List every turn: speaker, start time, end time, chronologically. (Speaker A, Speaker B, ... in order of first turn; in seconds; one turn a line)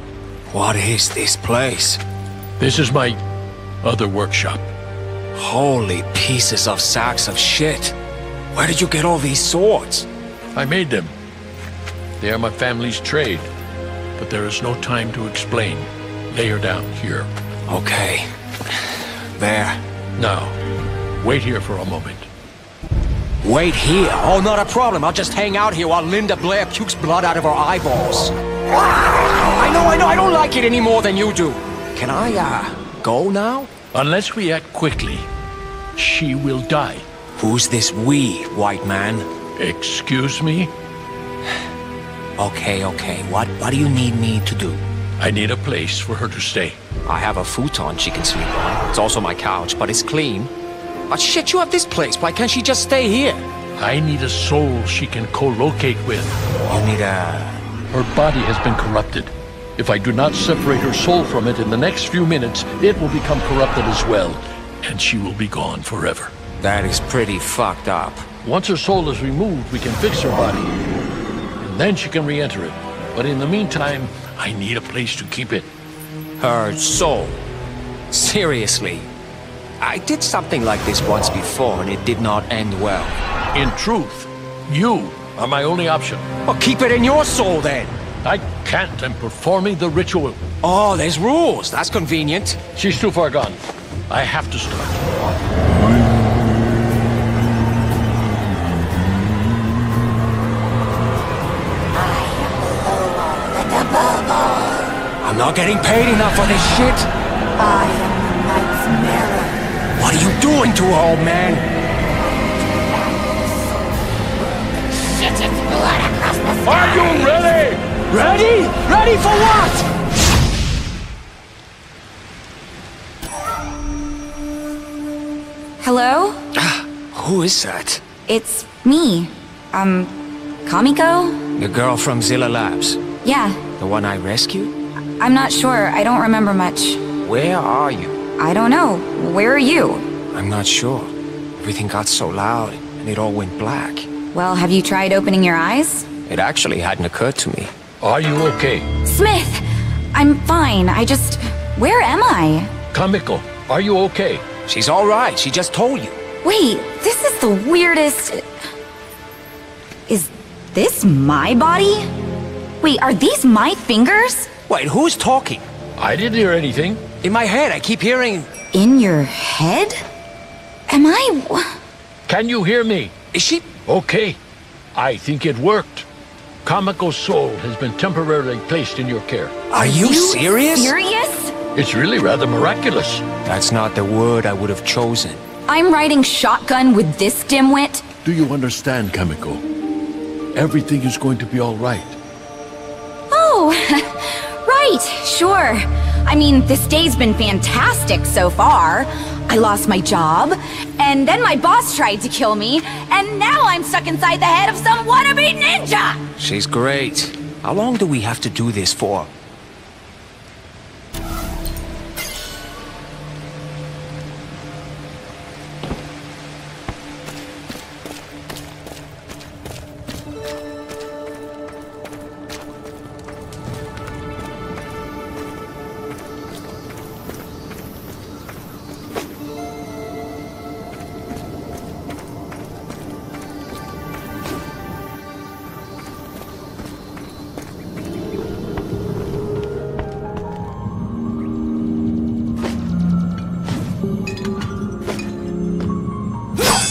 Speaker A: 0.5-2.0
Speaker B: 2.6-3.2
Speaker B: 3.8-4.7
Speaker A: 5.3-7.9
Speaker A: 8.5-10.1
Speaker B: 10.5-11.1
Speaker B: 12.2-13.5
Speaker B: 14.2-17.3
Speaker A: 17.7-19.8
Speaker B: 20.2-20.5
Speaker B: 21.2-22.3
Speaker A: 23.4-28.3
Speaker A: 29.0-33.7
Speaker B: 33.9-35.3
Speaker B: 36.0-37.0
Speaker A: 37.4-39.3
Speaker B: 39.6-40.7
Speaker A: 42.4-44.8
Speaker B: 45.2-46.8
Speaker A: 47.0-50.5
Speaker A: 51.1-53.5
Speaker B: 53.8-56.4
Speaker A: 56.7-57.6
Speaker B: 57.9-66.3
Speaker A: 66.6-68.3
Speaker B: 68.4-70.8
Speaker B: 71.6-75.7
Speaker A: 76.4-77.4
Speaker A: 78.1-79.1
Speaker A: 79.8-83.2
Speaker B: 83.5-86.2
Speaker A: 86.4-88.0
Speaker B: 88.2-90.4
Speaker A: 90.6-92.6
Speaker B: 92.8-93.6
Speaker B: 94.1-95.0
Speaker C: 101.9-104.9
Speaker A: 105.2-107.1
Speaker C: 107.6-109.6
Speaker A: 109.9-111.7
Speaker C: 115.0-117.2
Speaker B: 116.6-118.0
Speaker A: 118.1-119.8
Speaker D: 125.8-126.4
Speaker A: 126.5-128.0
Speaker D: 128.3-130.1
Speaker D: 130.7-131.4
Speaker A: 131.6-133.0
Speaker D: 133.2-133.6
Speaker A: 133.8-134.7
Speaker D: 135.2-137.0
Speaker A: 137.2-138.2
Speaker D: 138.4-140.1
Speaker A: 140.3-144.1
Speaker D: 144.3-146.1
Speaker A: 146.3-147.7
Speaker B: 148.0-148.9
Speaker D: 149.0-152.7
Speaker B: 152.9-154.4
Speaker A: 154.7-156.2
Speaker D: 156.4-158.4
Speaker D: 160.1-162.1
Speaker D: 162.8-164.5
Speaker A: 164.7-165.6
Speaker B: 166.0-167.0
Speaker A: 167.2-168.5
Speaker D: 168.7-170.0
Speaker D: 170.9-171.7
Speaker B: 172.3-173.1
Speaker A: 173.3-173.7
Speaker B: 173.8-174.4
Speaker B: 174.9-176.1
Speaker B: 176.6-179.6
Speaker A: 179.7-180.9
Speaker D: 179.7-181.6
Speaker B: 181.7-183.2
Speaker A: 183.4-185.4
Speaker D: 185.7-188.0
Speaker B: 188.2-189.6
Speaker B: 190.5-192.1
Speaker D: 193.3-206.2
Speaker A: 206.4-209.3